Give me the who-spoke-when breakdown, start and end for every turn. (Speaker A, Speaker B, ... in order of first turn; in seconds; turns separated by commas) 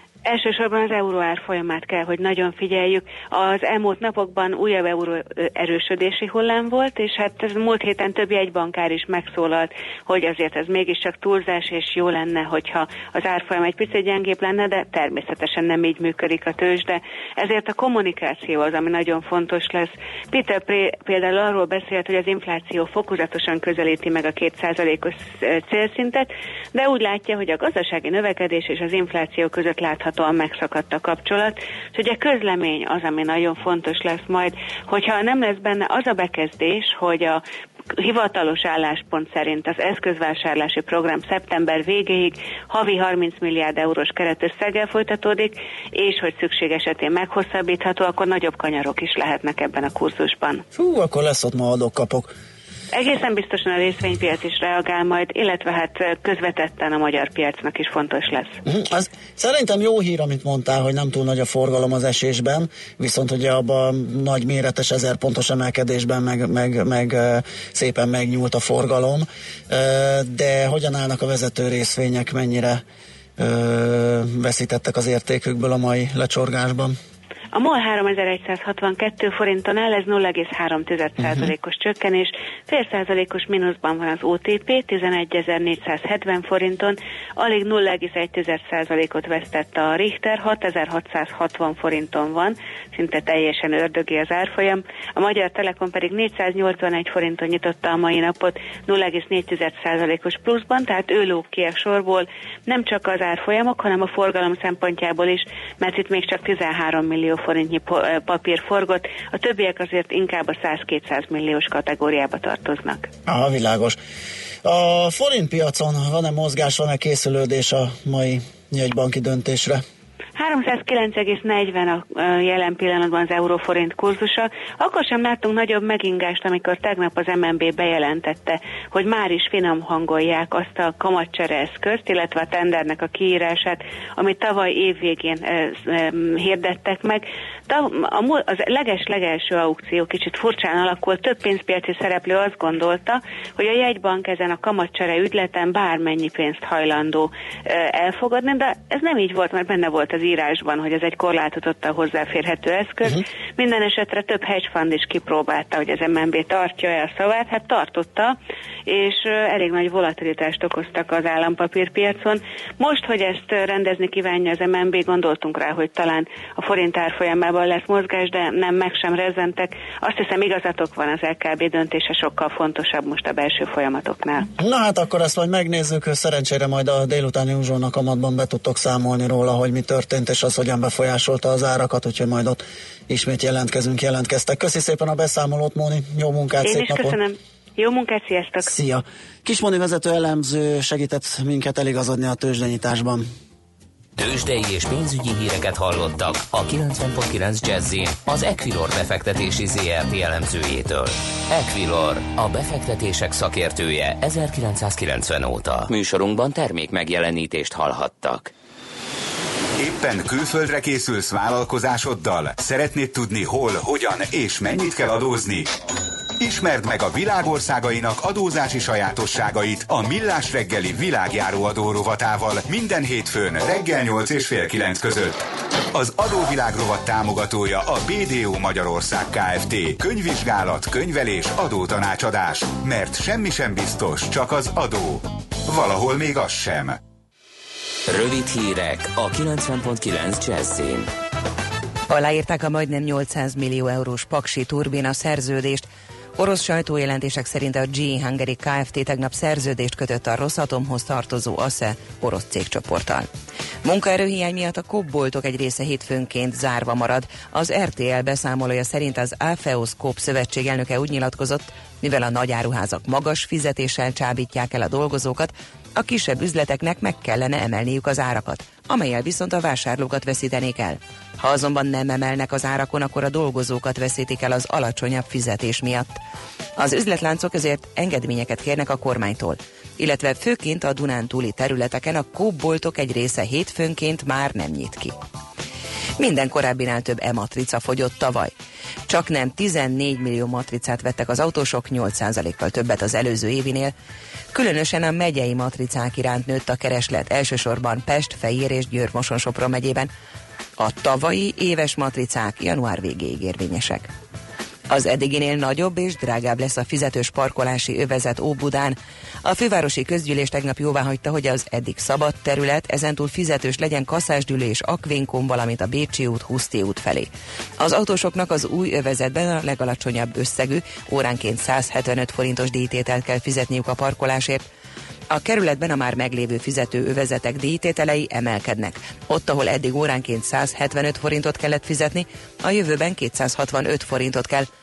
Speaker A: 0.2-37.4, Speaker A: 38.0-50.6, Speaker B: 50.7-52.3, Speaker A: 52.9-58.6, Speaker B: 58.7-72.8, Speaker B: 73.4-77.0, Speaker A: 77.5-113.1, Speaker B: 113.3-114.0, Speaker B: 114.6-119.8, Speaker A: 120.4-158.4, Speaker A: 158.9-174.5, Speaker B: 174.6-187.2, Speaker A: 186.6-188.7, Speaker B: 188.6-193.3, Speaker C: 194.2-208.5, Speaker D: 209.8-215.7, Speaker D: 216.4-225.4, Speaker D: 225.9-237.0, Speaker C: 238.1-241.1, Speaker E: 242.1-253.3, Speaker E: 253.8-276.2, Speaker E: 276.8-285.2, Speaker E: 286.2-288.5, Speaker E: 289.1-293.9, Speaker E: 294.5-300.1, Speaker E: 300.8-304.1, Speaker E: 304.9-324.7, Speaker E: 325.3-334.7